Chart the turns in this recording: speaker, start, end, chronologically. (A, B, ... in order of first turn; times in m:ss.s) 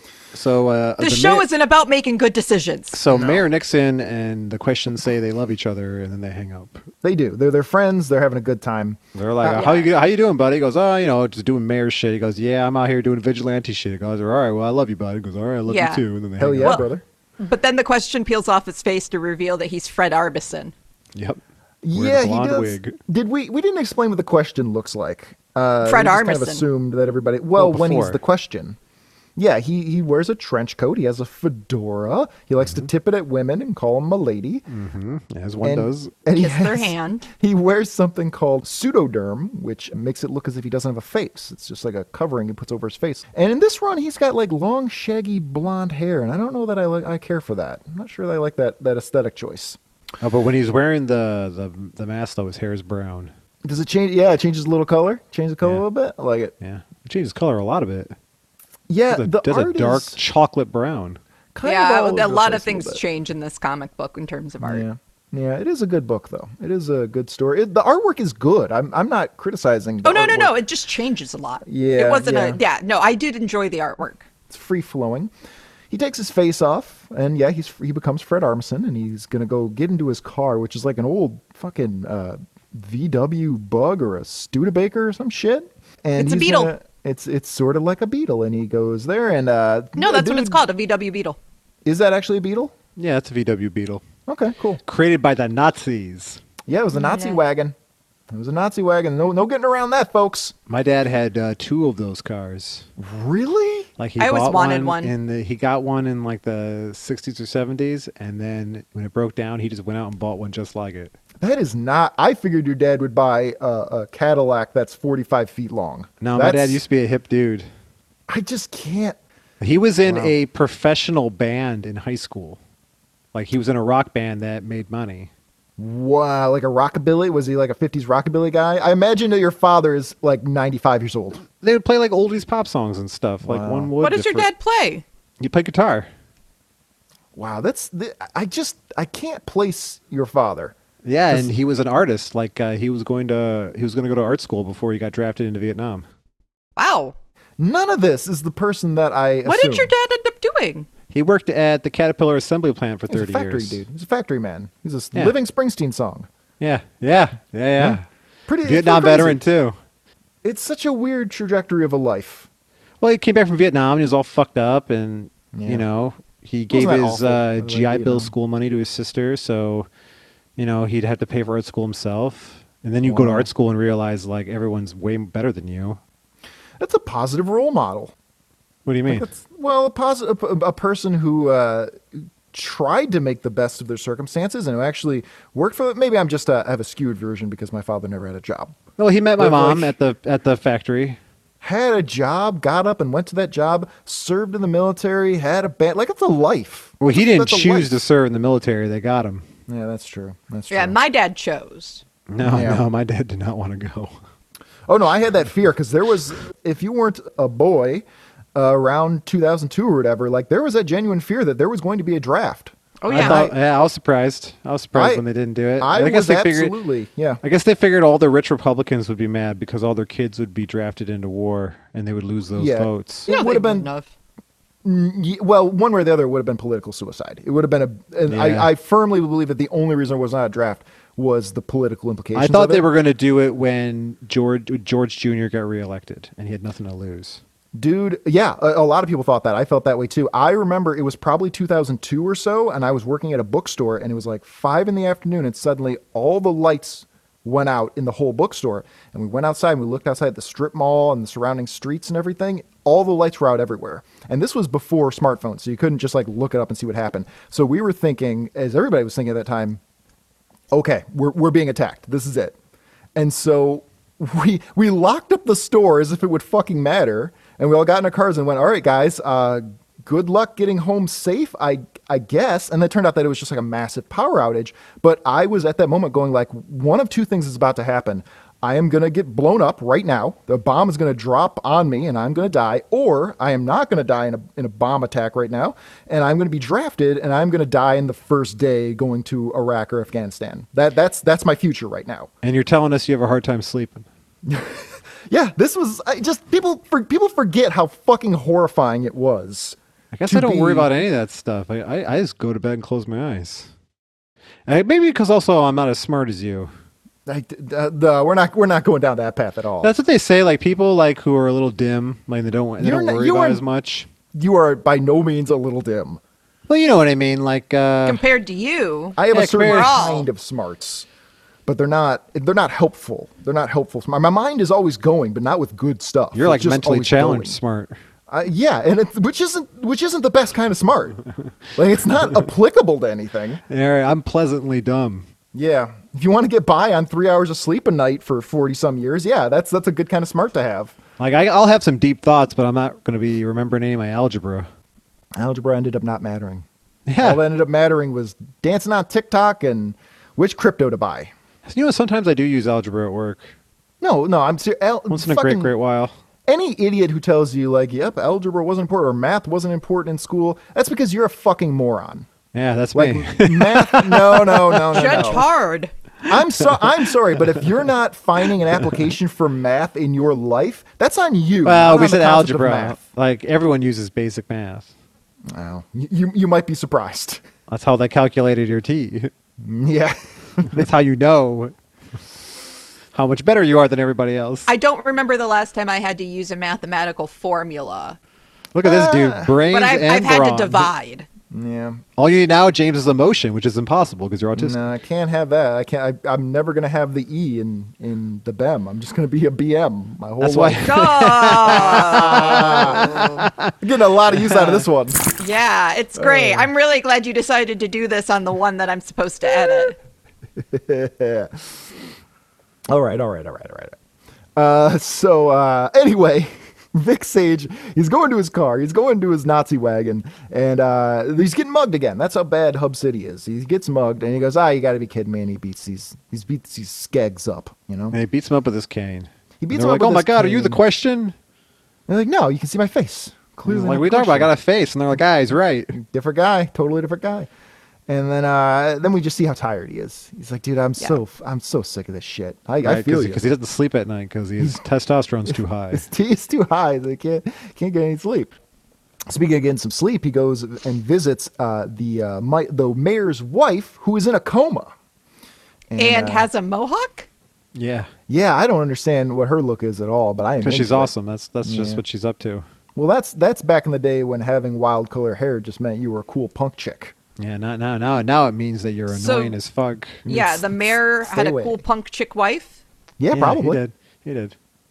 0:00.3-0:01.4 A
0:01.0-0:03.0 B
0:02.9-0:06.8 A
0:03.1-0:03.4 C
0:07.0-0:09.6 C
0:09.1-0:16.8 A
0:09.5-0:09.9 B
0:15.7-0:16.0 B
0:16.4-0:17.0 C
0:17.4-0:20.7 B
0:21.8-0:28.8 C
0:21.9-0:23.0 A
0:25.8-0:26.6 B
0:27.6-0:28.2 A
0:29.4-0:34.6 C
0:34.7-0:36.1 A
0:35.6-0:49.8 C
0:36.3-0:37.2 B
0:50.2-0:53.3 A
0:53.6-0:56.5 C
0:56.6-0:58.1 A
0:58.9-1:00.2 C
0:59.1-1:01.2 A
1:01.5-1:03.0 C
1:01.6-1:04.8 B
1:04.6-1:10.5 C
1:10.0-1:14.2 B
1:11.6-1:12.6 C
1:14.5-1:15.3 C
1:15.9-1:30.6 C
1:26.2-1:26.7 B
1:30.0-1:31.4 B
1:31.8-1:32.7 C
1:33.0-1:34.0 A
1:34.3-1:34.8 C
1:34.8-1:36.4 A
1:36.7-1:37.7 C
1:36.9-1:37.4 B
1:38.3-1:40.5 C
1:40.7-1:42.9 A
1:43.0-1:43.9 C
1:44.0-1:51.1 A
1:44.2-1:45.1 B
1:51.4-1:56.8 C
1:56.2-1:57.7 A
1:58.3-1:59.2 C
1:59.6-2:02.6 A
2:00.0-2:00.3 C
2:03.3-2:05.3 A
2:05.8-2:11.4 C
2:11.6-2:14.5 A
2:13.4-2:13.9 C
2:14.0-2:15.0 B
2:15.4-2:16.1 A
2:17.3-2:20.7 C
2:21.0-2:26.0 A
2:26.8-2:27.1 B
2:27.6-2:29.9 C
2:29.4-2:30.9 B
2:31.1-2:33.8 A
2:33.1-2:36.3 C
2:36.6-2:38.0 A
2:37.8-2:39.4 C
2:38.6-2:39.8 A
2:40.4-2:42.5 C
2:43.0-2:49.9 A
2:45.5-2:45.8 C
2:46.7-2:48.3 C
2:50.6-2:56.0 A
2:53.0-2:53.5 C
2:56.8-2:58.1 C
2:58.8-2:59.3 A
2:59.1-3:08.8 C
3:09.0-3:11.2 A
3:09.4-3:09.9 C
3:11.6-3:17.9 C
3:17.0-3:19.4 A
3:19.7-3:20.9 C
3:20.7-3:22.0 B
3:22.3-3:24.1 A
3:22.4-3:22.8 C
3:24.9-3:33.6 C
3:33.0-3:33.4 B
3:33.1-3:36.7 A
3:34.9-3:35.2 C
3:35.8-3:37.4 C
3:37.4-3:43.3 A
3:42.6-3:43.9 C
3:43.3-3:44.1 B
3:44.8-3:52.9 C
3:48.3-3:48.7 A
3:52.3-3:57.4 A
3:57.8-4:19.8 C
4:20.7-4:22.5 C
4:23.2-4:52.3 C
4:52.4-4:54.1 A
4:54.4-5:00.9 C
5:00.1-5:03.7 A
5:04.7-5:06.7 A
5:07.2-5:09.9 C
5:09.8-5:14.1 A
5:12.8-5:13.6 C
5:14.3-5:16.2 C
5:16.7-5:18.2 A
5:18.0-5:20.3 B
5:19.2-5:21.1 C
5:19.3-5:20.0 A
5:21.6-5:27.6 C
5:26.3-5:27.9 A
5:28.3-5:31.2 C
5:31.8-5:33.6 C
5:33.7-5:35.2 A
5:35.5-5:41.0 C
5:41.2-5:44.7 A
5:45.4-5:46.6 C
5:47.1-5:47.4 A
5:47.2-5:51.3 C
5:51.6-5:53.5 A
5:54.0-5:55.7 C
5:55.1-5:56.1 A
5:56.5-6:02.3 C
6:02.5-6:05.4 A
6:02.9-6:05.4 C
6:04.9-6:05.9 B
6:06.3-6:13.0 C
6:11.6-6:14.9 A
6:15.5-6:17.4 C
6:17.7-6:19.3 A
6:19.6-6:20.8 C
6:20.7-6:21.7 A
6:23.1-6:24.7 A
6:24.7-6:28.2 B
6:28.7-6:30.9 A
6:28.8-6:29.6 C
6:29.7-6:31.2 B
6:31.5-6:32.0 C
6:32.2-6:34.8 A
6:34.6-6:45.2 C
6:40.4-6:43.7 A
6:40.8-6:43.3 B
6:44.3-6:44.8 A
6:45.4-6:50.0 B
6:46.2-6:46.7 C
6:49.5-6:49.9 C
6:50.6-6:51.8 C
6:52.9-6:54.0 C
6:54.6-7:08.2 C
7:08.1-7:11.3 A
7:09.6-7:10.8 C
7:12.1-7:14.5 C
7:13.6-7:15.9 A
7:15.9-7:17.5 C
7:18.1-7:23.4 C
7:22.8-7:26.0 A
7:25.9-7:28.5 C
7:29.3-7:34.9 C
7:35.9-7:36.5 C
7:36.0-7:37.3 B
7:37.7-7:38.1 A
7:38.3-7:41.1 C
7:40.6-7:42.6 A
7:41.6-7:42.0 C
7:42.9-7:47.1 C
7:47.4-7:50.2 A
7:49.1-7:49.6 B
7:50.2-7:51.8 C
7:50.3-7:52.8 B
7:53.2-7:53.8 C
7:53.3-7:54.5 A